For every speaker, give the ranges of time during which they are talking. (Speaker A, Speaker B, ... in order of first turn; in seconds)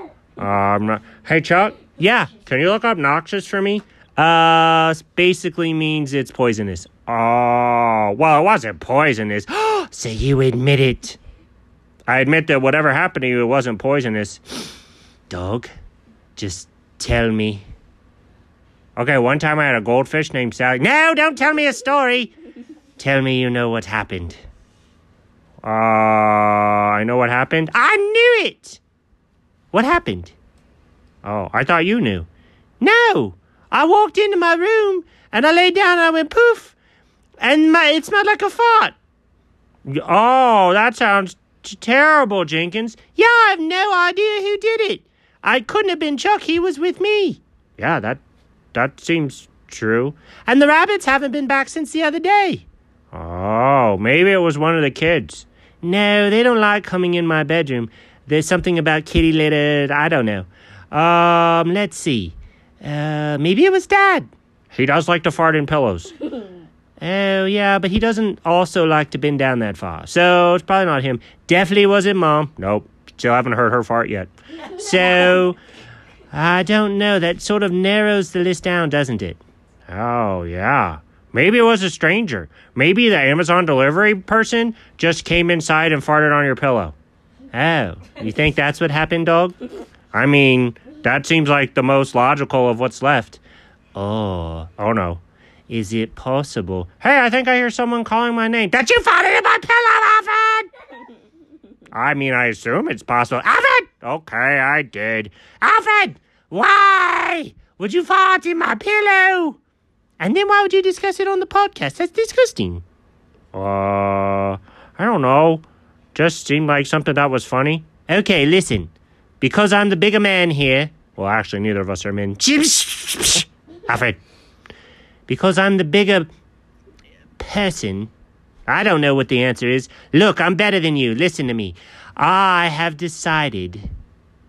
Speaker A: 0.4-11.2, 12.1-14.7, 15.3-15.7, 16.4-17.6, 19.0-22.3, 23.0-24.4, 25.6-28.8, 29.7-30.4, 31.2-32.3, 32.8-36.8, 37.4-39.0, 39.9-48.2, 48.7-66.1, 67.0-75.6, 76.3-87.0, 87.5-89.5, 90.1-93.4, 94.0-100.7, 101.9-109.6, 110.2-112.8, 113.5-124.2, 125.3-126.3, 127.4-128.1, 128.7-133.9